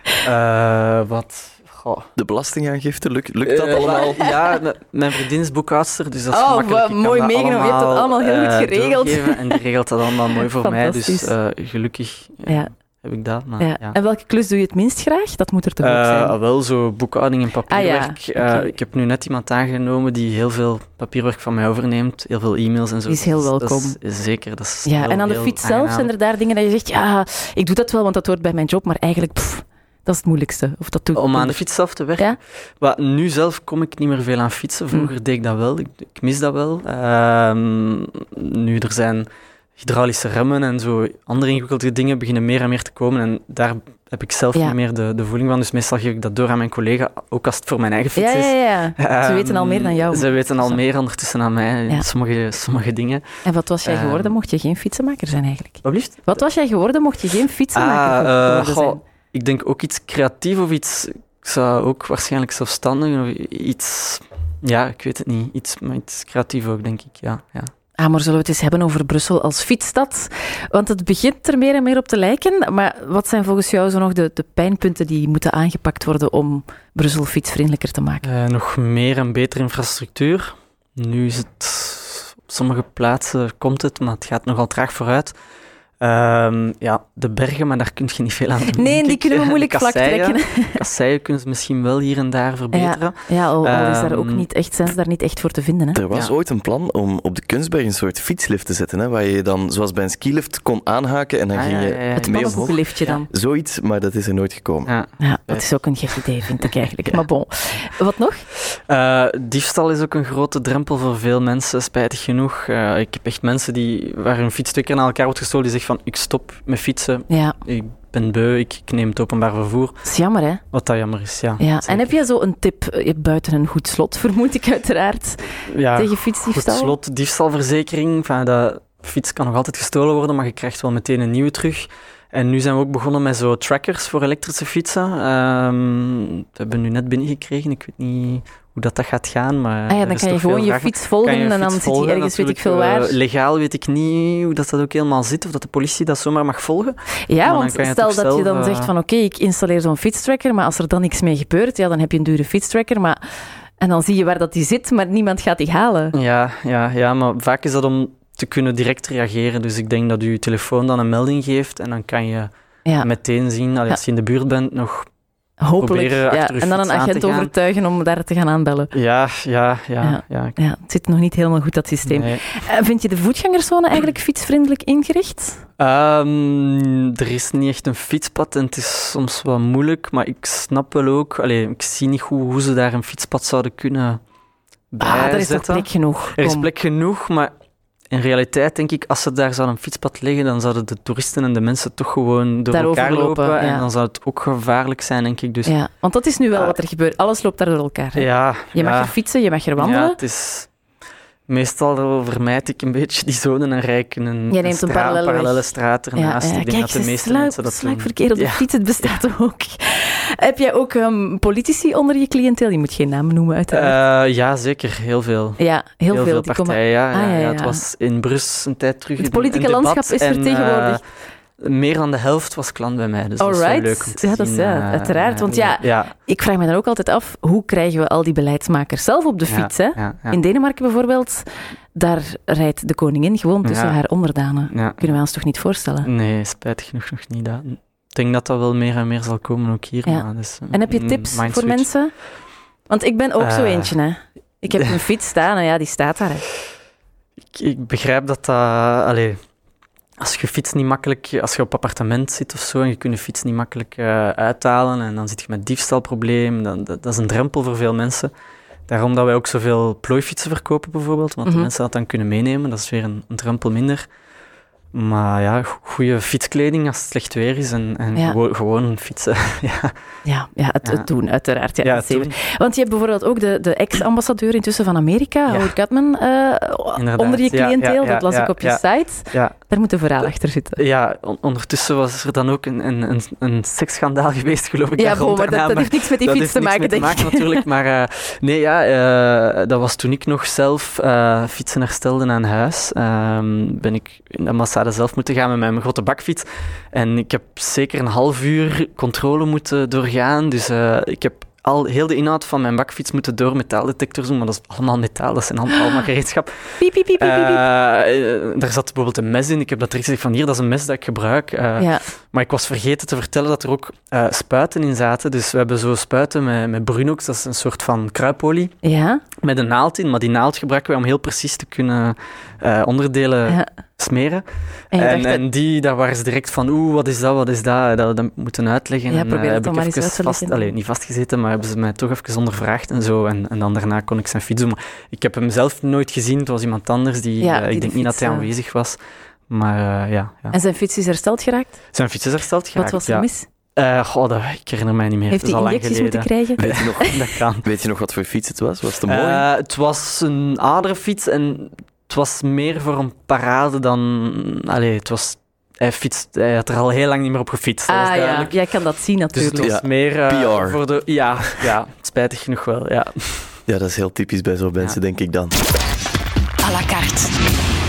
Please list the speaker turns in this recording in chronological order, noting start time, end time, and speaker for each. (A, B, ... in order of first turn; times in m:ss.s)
0:00.2-0:02.1 A
0:02.2-0:04.2 B
0:03.4-0:14.0 A
0:03.9-0:04.4 C
0:06.3-0:09.6 C
0:10.2-0:11.3 C
0:13.6-0:16.4 C
0:15.8-0:26.1 A
0:17.7-0:18.7 C
0:23.1-0:24.0 C
0:24.8-0:31.6 C
0:31.1-0:53.2 A
0:48.2-0:50.8 C
0:53.4-0:59.0 C
0:53.8-0:54.3 A
0:55.8-0:56.4 A
0:57.7-1:07.7 A
1:08.0-1:18.2 C
1:18.2-1:25.3 A
1:26.0-1:34.4 A
1:28.6-1:30.8 C
1:32.7-1:36.0 C
1:35.9-1:44.9 B
1:41.5-1:43.2 A
1:42.1-1:43.3 C
1:44.9-1:47.1 A
1:45.2-1:48.4 C
1:48.7-2:00.0 A
1:57.3-1:57.6 C
2:00.0-2:00.6 C
2:00.7-2:02.1 A
2:01.6-2:07.0 C
2:05.7-2:28.9 A
2:19.9-2:23.2 C
2:27.3-2:33.2 C
2:33.8-2:36.1 C
2:36.1-2:45.1 A
2:45.6-2:48.9 C
2:45.8-2:47.5 A
2:48.9-2:50.6 A
2:50.0-2:55.6 C
2:52.1-2:52.4 A
2:55.8-3:04.2 A
3:04.9-3:07.5 A
3:05.0-3:06.7 C
3:08.1-3:15.7 A
3:12.7-3:13.8 C
3:15.6-3:20.2 C
3:18.1-3:19.1 A
3:19.8-3:20.7 A
3:21.5-3:29.2 A
3:24.5-3:34.0 C
3:33.7-3:41.0 A
3:35.6-3:37.8 C
3:39.2-3:41.0 C
3:41.6-3:46.1 A
3:43.4-3:56.1 C
3:49.5-3:50.4 A
3:53.6-3:54.0 A
3:54.7-3:55.2 A
3:56.0-4:01.9 A
4:00.0-4:02.1 C
4:02.9-4:06.5 C
4:03.4-4:04.0 A
4:07.5-4:09.4 A
4:10.2-4:18.3 A
4:18.9-4:24.0 A
4:21.4-4:21.7 C
4:24.9-4:29.9 A
4:30.2-4:40.8 C
4:31.8-4:32.3 A
4:35.5-4:35.7 A
4:37.0-4:39.5 A
4:40.2-5:18.7 A
4:45.0-4:47.6 C
5:06.8-5:07.6 C
5:11.8-5:12.0 C
5:18.8-5:19.2 C
5:19.4-5:39.0 A
5:24.9-5:25.4 C
5:29.1-5:30.7 C
5:37.4-5:38.5 C
5:39.5-5:40.6 A
5:40.5-5:41.8 C
5:41.9-5:47.7 A
5:42.7-5:43.4 C
5:45.3-5:47.2 C
5:46.6-5:49.4 B
5:49.0-5:58.6 A
5:57.9-5:59.7 C
5:59.3-6:03.6 A
5:59.6-6:00.8 B
6:03.7-6:05.5 B
6:06.6-6:07.3 C